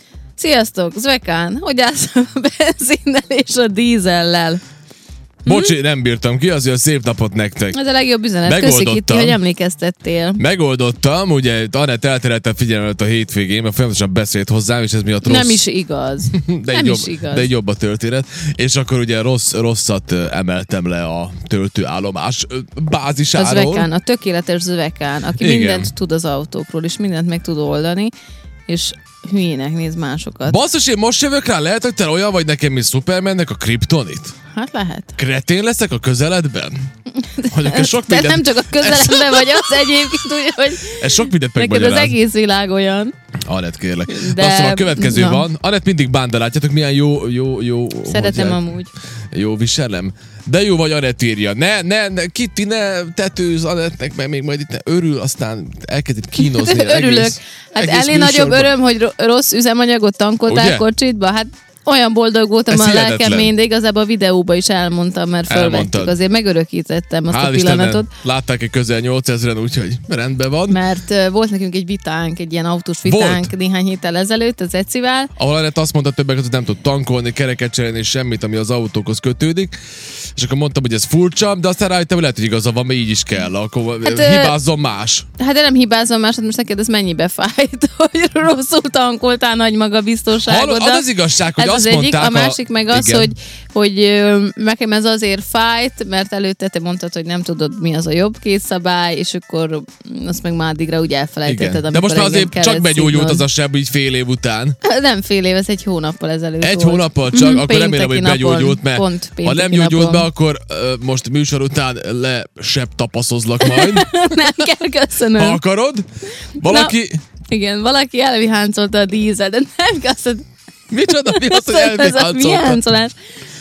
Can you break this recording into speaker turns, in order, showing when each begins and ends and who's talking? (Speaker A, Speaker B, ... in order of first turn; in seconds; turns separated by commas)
Speaker A: 0.4-4.6, Speaker A: 5.4-5.7, Speaker B: 5.4-7.8, Speaker A: 7.7-10.4, Speaker B: 8.4-9.4, Speaker B: 10.4-15.6, Speaker A: 15.2-17.5, Speaker B: 16.3-23.9, Speaker A: 23.3-28.1, Speaker B: 25.4-25.9, Speaker A: 28.7-30.6, Speaker B: 30.4-34.4, Speaker A: 34.5-35.2, Speaker B: 35.2-36.9, Speaker A: 37.1-43.1, Speaker B: 37.5-42.1, Speaker B: 43.5-48.6, Speaker A: 44.1-45.4, Speaker A: 48.0-48.9, Speaker B: 49.3-58.7, Speaker A: 56.4-68.1, Speaker B: 60.5-60.9, Speaker B: 62.7-63.5, Speaker B: 65.5-66.2, Speaker B: 67.3-70.8, Speaker A: 70.7-75.3, Speaker B: 73.0-73.5, Speaker B: 75.3-79.7, Speaker B: 80.3-85.3, Speaker A: 84.0-84.5, Speaker A: 85.4-103.4, Speaker B: 90.4-93.3, Speaker B: 101.4-104.8, Speaker A: 104.8-110.3, Speaker B: 106.6-114.7, Speaker A: 113.6-115.6, Speaker B: 115.3-116.0, Speaker B: 116.6-117.2, Speaker A: 116.6-116.9, Speaker A: 117.5-120.4, Speaker B: 120.9-122.8, Speaker A: 121.2-123.1